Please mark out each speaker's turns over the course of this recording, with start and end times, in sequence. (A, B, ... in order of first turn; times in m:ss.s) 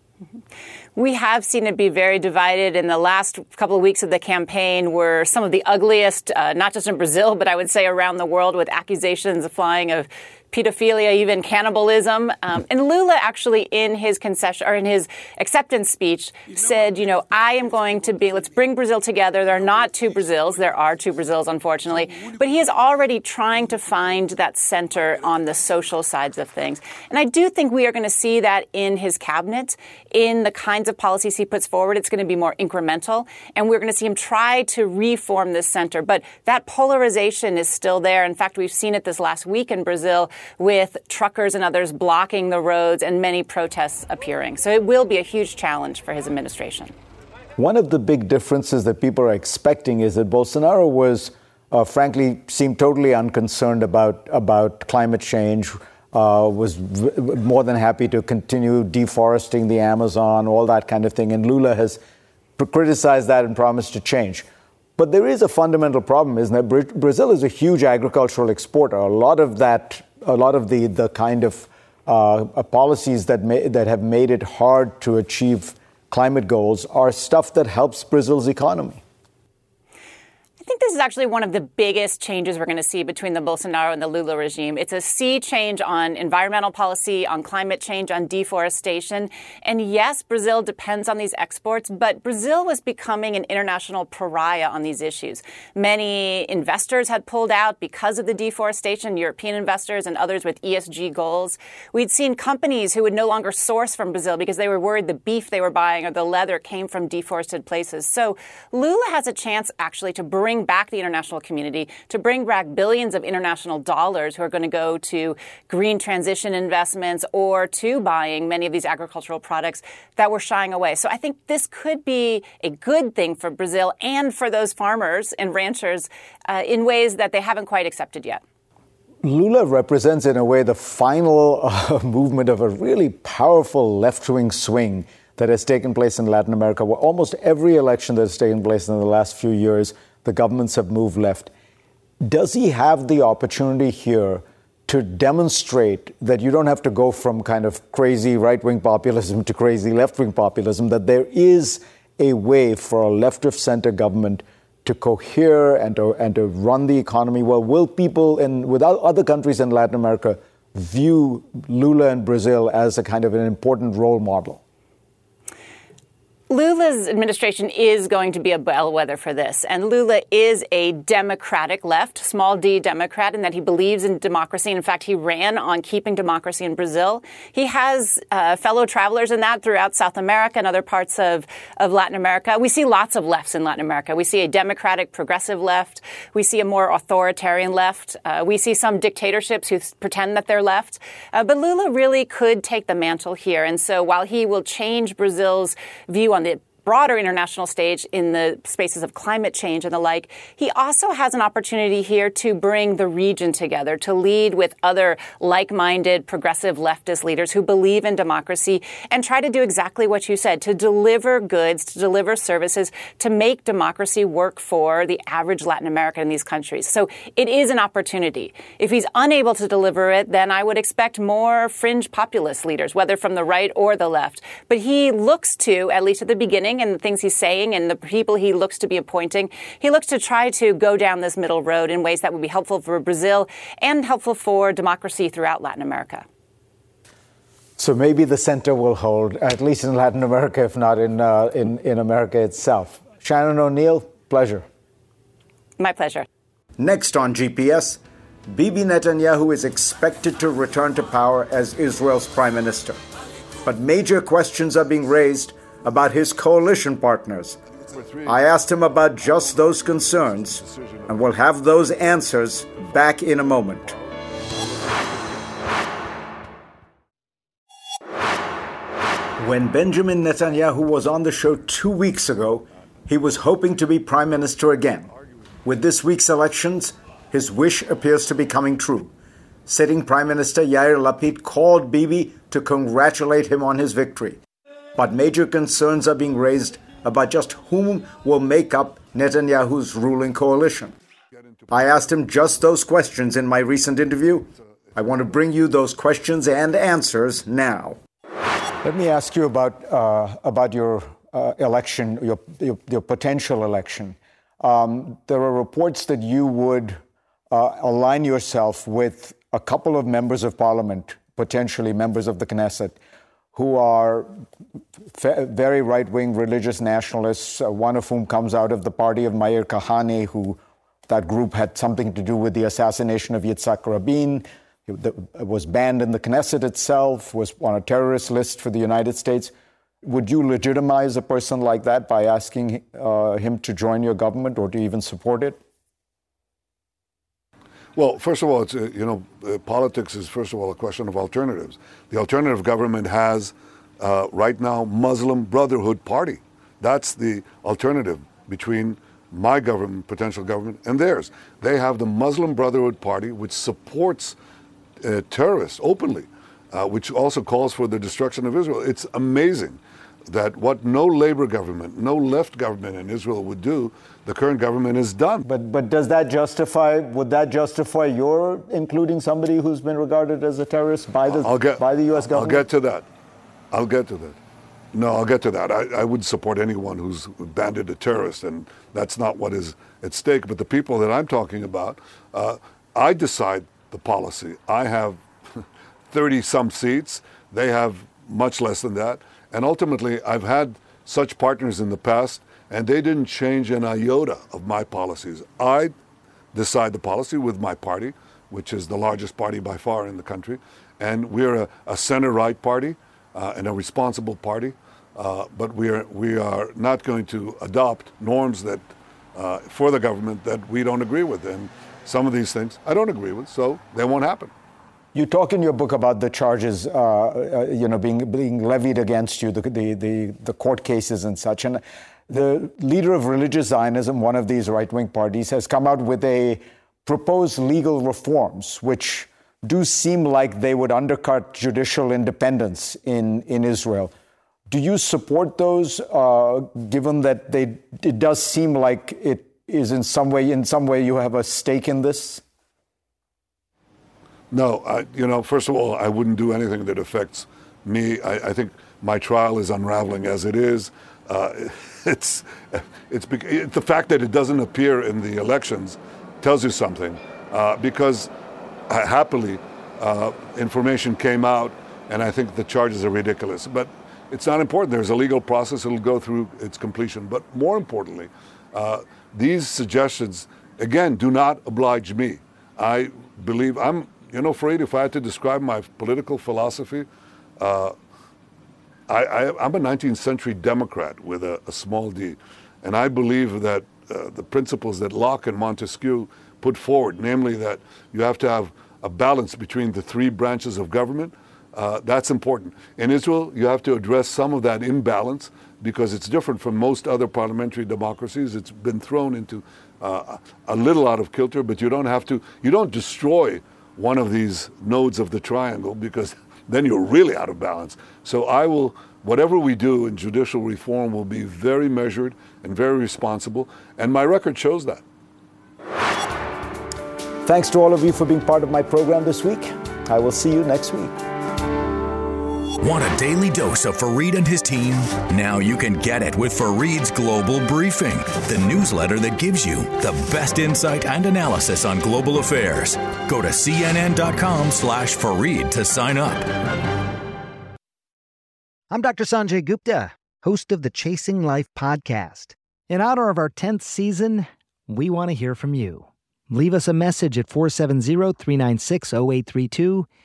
0:01.0-0:46.9 A
0:47.6-1:02.0 B
1:02.6-1:04.4 B
1:05.0-1:19.0 B
1:20.6-2:08.4 A
2:09.2-2:21.5 B
2:22.2-2:44.6 B
2:46.5-3:56.2 A
3:57.8-4:04.6 B
4:05.8-4:06.2 A
4:06.8-4:13.0 B
4:13.6-4:17.6 B
4:17.7-4:18.4 C
4:18.2-4:23.9 B
4:19.1-4:21.2 C
4:22.7-4:25.5 C
4:29.4-4:35.1 B
4:35.6-4:39.1 B
4:39.6-4:44.4 B
4:44.9-4:51.0 B
4:51.4-4:51.7 C
4:51.7-4:58.0 B
4:58.8-5:07.0 B
5:07.5-5:13.0 B
5:13.5-5:14.4 B
5:15.1-5:35.6 B
5:38.0-5:54.3 C
5:55.0-6:05.4 C
6:05.4-6:12.6 B
6:11.3-6:13.0 C
6:13.7-6:14.4 C
6:14.9-6:25.2 C
6:26.1-6:35.9 C
6:36.5-6:48.8 C
6:49.3-6:54.5 C
6:55.1-7:14.1 B
7:14.7-7:22.4 B
7:24.5-7:38.3 C
7:38.9-7:57.1 C
7:57.6-7:57.9 C
7:59.1-8:35.0 C
8:37.4-8:41.1 B
8:42.8-8:56.5 D
8:58.9-9:10.1 E